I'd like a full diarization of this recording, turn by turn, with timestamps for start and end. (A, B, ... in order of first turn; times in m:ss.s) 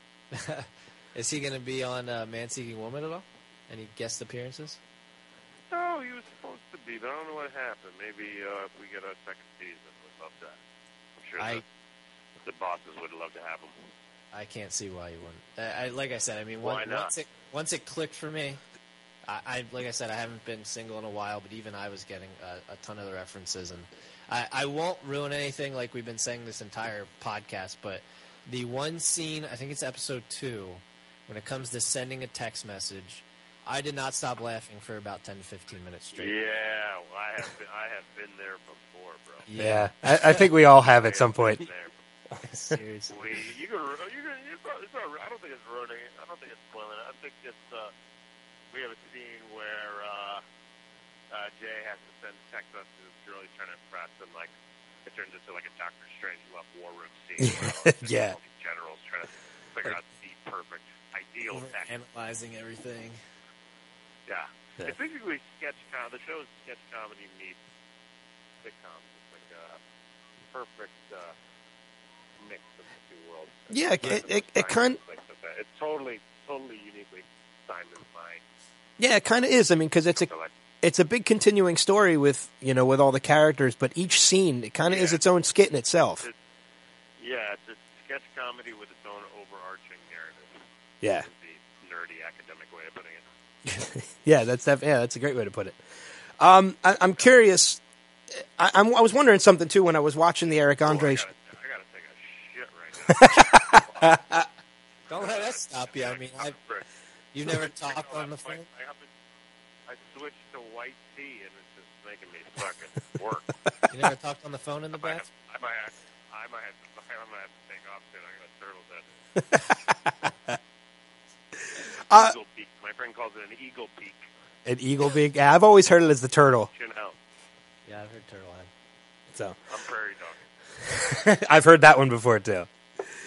0:00.3-0:04.8 A
0:05.7-0:10.6 B
0:11.2-0:11.6 B
0:11.4-0:11.6 A
0:12.4-0:13.8 B
0:14.3-0:18.6 A
0:16.6-0:17.1 B
0:19.2-0:36.4 A
0:36.2-0:39.5 B
0:39.5-0:40.5 A
0:39.6-0:41.6 C
0:41.0-0:41.9 B
0:42.4-0:43.2 A
0:43.1-0:47.9 B
0:48.7-0:50.4 B
0:51.3-0:54.5 B
0:55.0-1:01.9 B
0:57.4-0:58.4 C
1:01.5-1:03.2 A
1:04.3-1:07.6 B
1:08.6-1:09.8 B
1:10.5-1:11.3 B
1:12.4-1:18.4 B
1:13.7-1:15.0 C
1:19.0-1:20.3 C
1:20.2-1:20.5 B
1:20.8-1:26.2 C
1:24.8-1:25.2 B
1:27.2-1:30.6 B
1:31.0-1:31.3 C
1:31.1-1:33.2 B
1:33.7-1:35.8 C
1:36.4-1:37.8 C
1:38.6-1:41.2 C
1:40.8-1:44.2 B
1:43.2-1:44.4 C
1:45.1-1:46.6 A
1:45.1-1:46.8 B
1:47.3-1:48.6 A
1:47.4-1:49.1 B
1:49.9-1:53.7 B
1:53.9-1:55.3 A
1:54.9-1:59.0 B
1:59.4-2:00.2 C
2:02.1-2:02.3 C
2:02.1-2:04.2 B
2:04.6-2:06.7 C
2:06.7-2:07.2 B
2:07.8-2:08.7 A
2:09.7-2:10.4 B
2:10.8-2:12.7 C